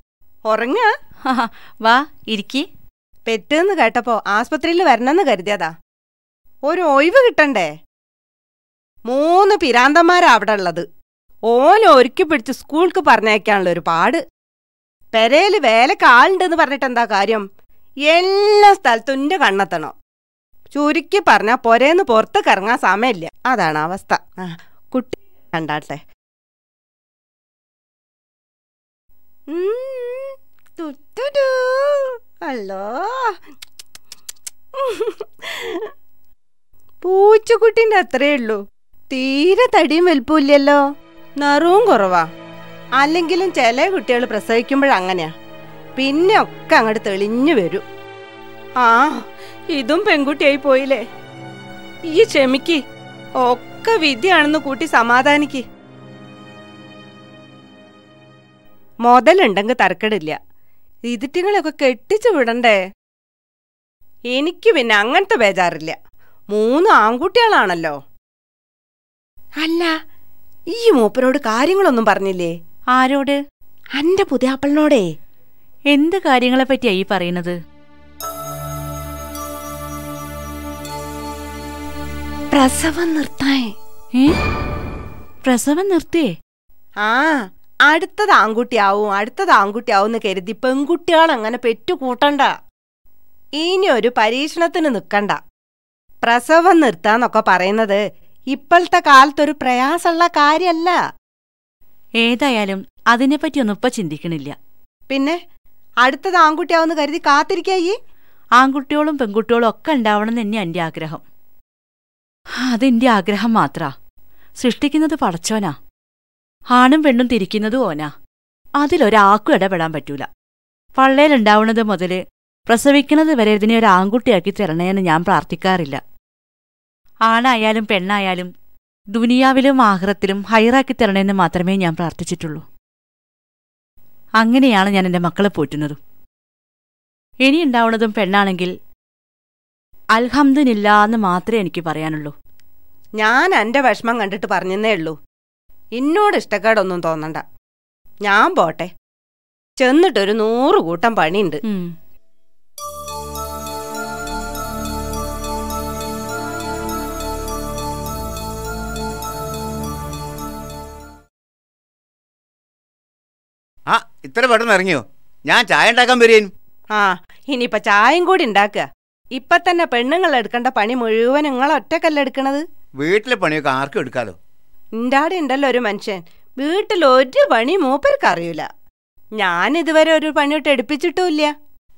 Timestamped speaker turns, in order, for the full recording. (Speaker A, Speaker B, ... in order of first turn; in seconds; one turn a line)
Speaker A: 0.5-0.8
Speaker B: 1.2-2.6
Speaker A: 3.3-5.7
Speaker A: 6.7-7.7
Speaker A: 9.1-10.8
Speaker A: 11.5-14.2
Speaker A: 15.1-17.4
Speaker A: 18.1-19.9
Speaker A: 20.7-26.0
Speaker A: 29.5-33.3
Speaker A: 34.8-35.9
Speaker A: 37.0-38.6
Speaker A: 39.1-40.8
Speaker A: 41.4-42.2
Speaker A: 43.0-45.3
Speaker A: 46.0-47.8
Speaker A: 48.8-49.1
Speaker A: 49.7-51.0
Speaker A: 52.1-52.8
Speaker A: 53.4-55.6
Speaker A: 59.0-60.4
Speaker A: 61.1-62.8
Speaker A: 64.3-65.9
Speaker A: 66.5-67.9
Speaker A: 69.6-69.9
Speaker A: 70.7-72.5
Speaker B: 72.9-73.3
Speaker A: 74.0-75.0
Speaker B: 75.9-77.5
Speaker A: 82.5-83.7
Speaker B: 85.4-86.3
Speaker A: 87.0-87.3
Speaker A: 87.9-92.5
Speaker A: 93.6-95.4
Speaker A: 96.2-98.0
Speaker A: 98.5-101.0
Speaker B: 102.2-104.5
Speaker A: 105.1-105.3
Speaker A: 106.0-107.9
Speaker B: 108.6-111.2
Speaker B: 112.6-113.9
Speaker B: 114.6-115.8
Speaker B: 116.7-118.1
Speaker B: 118.8-120.3
Speaker B: 121.0-126.0
Speaker B: 127.3-128.5
Speaker B: 129.1-132.6
Speaker B: 134.4-136.0
Speaker B: 137.4-138.7
Speaker B: 140.2-142.3
Speaker A: 143.2-145.2
Speaker A: 146.0-147.4
Speaker A: 148.2-148.9
Speaker A: 149.8-151.6
Speaker C: 163.9-166.5
Speaker A: 166.9-172.6
Speaker C: 173.0-174.4
Speaker A: 175.0-178.7
Speaker A: 179.4-181.5